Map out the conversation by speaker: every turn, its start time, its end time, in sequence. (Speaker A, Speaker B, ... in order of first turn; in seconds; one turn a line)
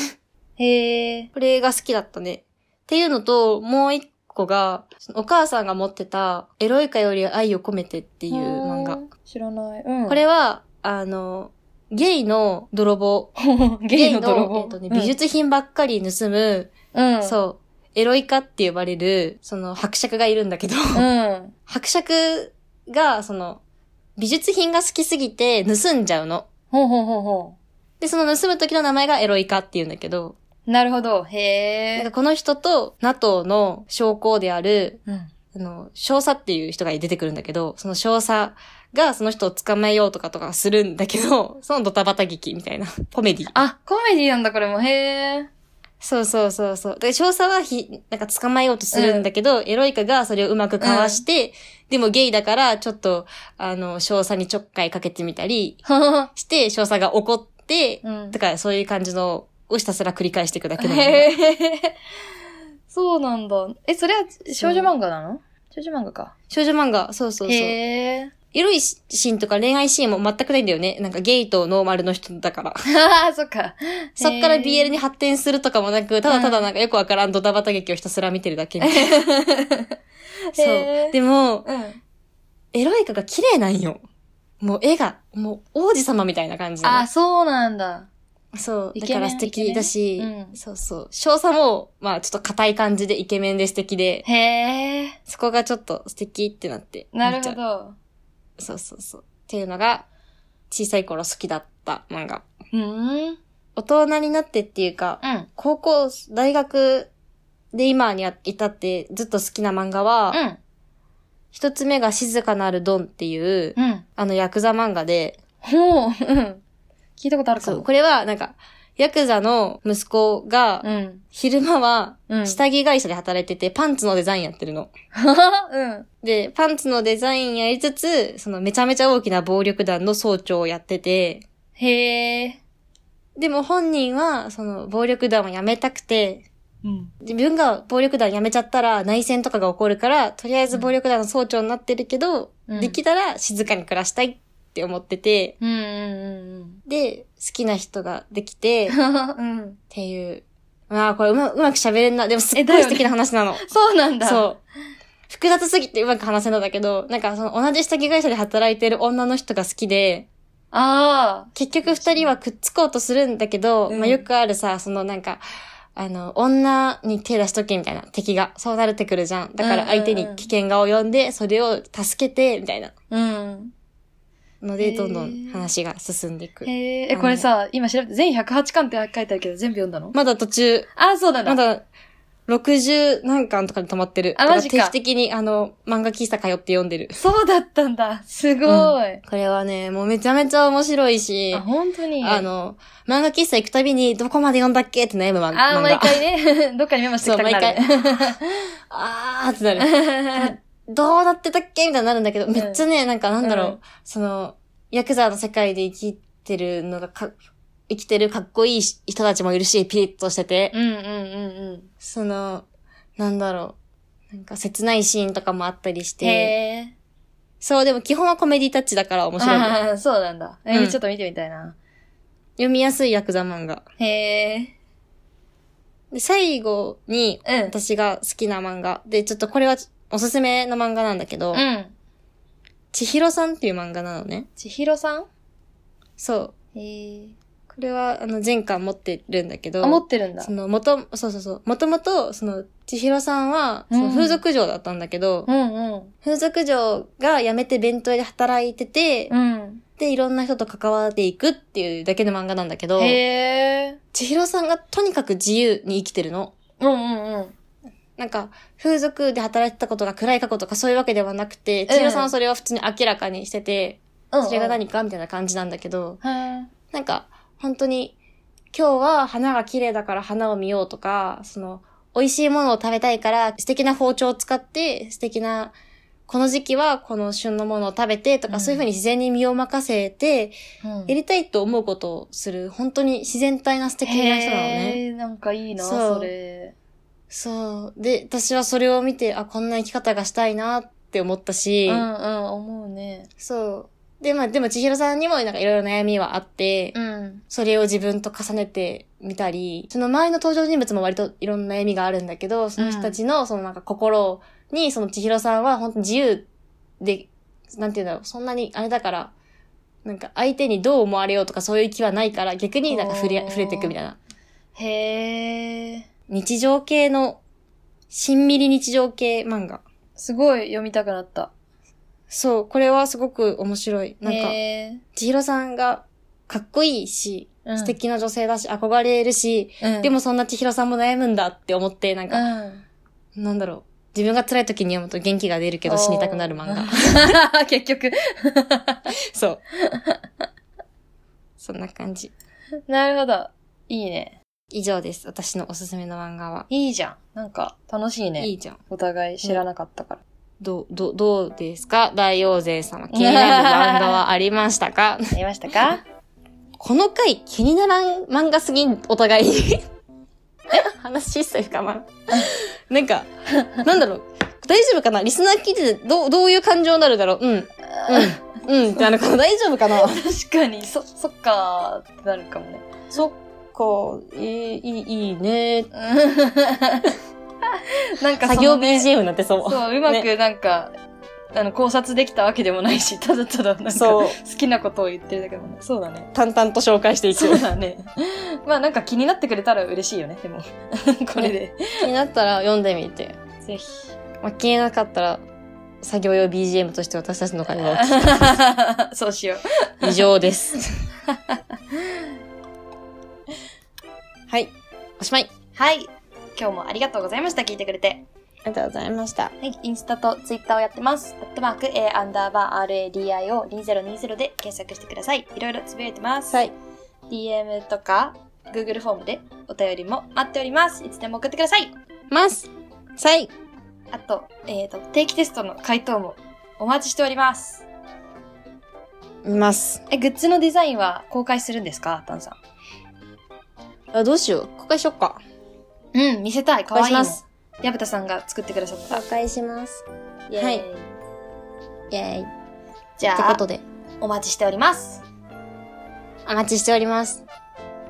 Speaker A: 0.6-1.3
Speaker B: 1.3-9.0
Speaker A: 8.3-10.2
Speaker B: 10.1-13.3
Speaker A: 13.4-15.1
Speaker B: 13.9-21.0
Speaker A: 16.9-17.4
Speaker A: 20.9-21.5
Speaker B: 21.7-23.6
Speaker B: 24.2-26.5
Speaker A: 26.7-27.6
Speaker B: 28.0-30.4
Speaker A: 30.7-32.1
Speaker B: 31.9-35.0
Speaker B: 35.5-43.6
Speaker A: 43.5-45.5
Speaker B: 46.0-61.3
Speaker A: 48.9-49.3
Speaker A: 50.8-51.2
Speaker A: 55.8-56.3
Speaker A: 58.0-58.4
Speaker A: 60.8-61.9
Speaker A: 62.9-66.3
Speaker B: 64.6-64.9
Speaker B: 66.5-67.8
Speaker A: 67.4-68.3
Speaker B: 68.5-72.8
Speaker A: 72.8-74.9
Speaker B: 74.2-79.2
Speaker A: 76.3-76.7
Speaker A: 78.8-79.9
Speaker A: 80.5-82.0
Speaker B: 80.6-81.7
Speaker B: 82.7-84.0
Speaker B: 84.6-87.1
Speaker A: 86.8-88.1
Speaker B: 88.5-94.2
Speaker A: 89.0-90.6
Speaker A: 94.2-95.2
Speaker B: 95.3-97.6
Speaker A: 97.1-98.0
Speaker B: 98.6-100.0
Speaker B: 100.7-102.4
Speaker A: 102.7-103.4
Speaker B: 103.8-107.1
Speaker A: 105.2-105.5
Speaker B: 107.7-110.4
Speaker A: 110.3-110.6
Speaker B: 111.5-115.4
Speaker A: 113.8-114.0
Speaker A: 115.6-116.6
Speaker A: 117.2-117.8
Speaker B: 117.6-124.9
Speaker A: 120.8-121.2
Speaker A: 122.3-122.6
Speaker A: 125.1-126.1
Speaker B: 126.2-131.4
Speaker A: 131.8-132.6
Speaker B: 133.4-136.4
Speaker A: 136.8-137.1
Speaker B: 137.2-145.5
Speaker A: 142.7-143.0
Speaker A: 145.6-146.8
Speaker B: 146.9-149.0
Speaker A: 148.9-149.8
Speaker B: 149.9-153.6
Speaker A: 152.5-154.4
Speaker B: 154.2-154.6
Speaker B: 155.3-160.3
Speaker A: 160.7-162.3
Speaker B: 161.5-165.4
Speaker A: 163.9-164.2
Speaker B: 165.9-172.9
Speaker A: 169.6-170.5
Speaker A: 173.1-173.7
Speaker B: 174.6-177.5
Speaker A: 174.8-175.7
Speaker A: 176.6-180.1
Speaker B: 180.1-180.9
Speaker A: 180.9-181.6
Speaker B: 181.4-181.8
Speaker B: 182.5-187.2
Speaker A: 184.3-184.9
Speaker A: 187.2-189.2
Speaker B: 188.7-191.6
Speaker A: 191.5-192.4
Speaker B: 192.2-196.2
Speaker A: 195.5-198.4
Speaker B: 197.2-198.3
Speaker B: 198.9-207.3
Speaker A: 199.8-200.5
Speaker A: 202.5-202.8
Speaker A: 203.4-203.8
Speaker B: 207.9-210.7
Speaker A: 210.7-211.9
Speaker B: 212.0-212.6
Speaker B: 213.2-213.8
Speaker B: 214.3-216.5
Speaker A: 216.2-216.9
Speaker B: 217.6-219.8
Speaker A: 219.4-221.8
Speaker B: 220.7-221.0
Speaker B: 222.6-223.8
Speaker A: 224.0-224.7
Speaker B: 226.1-231.6
Speaker A: 227.4-227.7
Speaker A: 231.5-231.9
Speaker B: 232.9-234.5
Speaker A: 234.6-235.3
Speaker B: 236.2-236.5
Speaker A: 236.7-237.3
Speaker B: 237.7-245.5
Speaker A: 239.8-240.5
Speaker A: 243.9-244.4
Speaker A: 245.4-246.1
Speaker B: 246.2-249.3
Speaker A: 249.3-249.8
Speaker B: 250.0-253.2
Speaker A: 253.0-254.0
Speaker B: 254.1-256.5
Speaker A: 256.8-257.5
Speaker B: 258.2-266.2
Speaker A: 261.9-262.3
Speaker A: 264.3-264.8
Speaker A: 266.2-266.7
Speaker B: 266.9-268.1
Speaker B: 268.7-275.8
Speaker B: 276.3-280.6
Speaker A: 278.5-278.9
Speaker A: 280.8-281.1
Speaker B: 281.1-285.0
Speaker A: 284.0-286.7
Speaker B: 285.8-286.3
Speaker B: 287.3-292.1
Speaker A: 291.9-293.3
Speaker B: 293.4-296.9
Speaker A: 296.9-297.4
Speaker B: 297.5-306.5
Speaker A: 302.8-303.2
Speaker B: 307.0-309.3
Speaker B: 310.0-314.2
Speaker A: 312.9-313.9
Speaker A: 314.7-316.1
Speaker B: 316.3-317.4
Speaker B: 318.1-319.8
Speaker A: 320.2-321.5
Speaker B: 322.3-324.6
Speaker A: 324.2-325.0
Speaker B: 325.1-332.4
Speaker A: 327.6-327.9
Speaker A: 329.8-330.1
Speaker A: 332.3-332.8
Speaker B: 333.4-337.3
Speaker A: 335.8-339.1
Speaker B: 339.3-339.6
Speaker A: 339.8-340.2
Speaker B: 341.6-342.3
Speaker A: 342.9-344.4
Speaker B: 344.7-346.7
Speaker A: 346.7-350.2
Speaker B: 348.4-348.8
Speaker B: 350.6-355.3
Speaker A: 353.1-354.2
Speaker A: 355.3-356.0
Speaker B: 356.8-359.8
Speaker B: 360.7-363.3
Speaker B: 363.8-370.2
Speaker A: 368.0-368.4
Speaker A: 370.1-372.9
Speaker B: 373.1-375.9
Speaker A: 375.9-377.1
Speaker A: 377.7-379.1
Speaker B: 378.4-380.3
Speaker A: 379.6-380.9
Speaker A: 381.5-386.3
Speaker B: 383.9-384.4
Speaker B: 386.3-387.6
Speaker A: 387.3-392.1
Speaker B: 391.4-393.4
Speaker A: 393.6-394.1
Speaker B: 394.4-395.4
Speaker B: 396.0-398.5
Speaker A: 397.7-400.2
Speaker B: 400.0-400.9
Speaker A: 401.3-401.6
Speaker B: 404.5-405.5
Speaker A: 405.7-408.2
Speaker B: 408.6-409.5
Speaker A: 409.6-416.6
Speaker A: 417.3-421.9
Speaker B: 422.3-423.5
Speaker A: 424.1-427.8
Speaker B: 429.4-430.0
Speaker A: 430.1-432.6
Speaker B: 434.1-435.4
Speaker A: 436.1-439.2
Speaker B: 436.9-437.4
Speaker B: 439.1-440.0
Speaker A: 440.5-441.1
Speaker B: 440.6-440.8
Speaker B: 442.1-442.5
Speaker A: 443.2-443.6
Speaker B: 443.3-443.8
Speaker A: 444.2-445.2
Speaker B: 446.4-447.4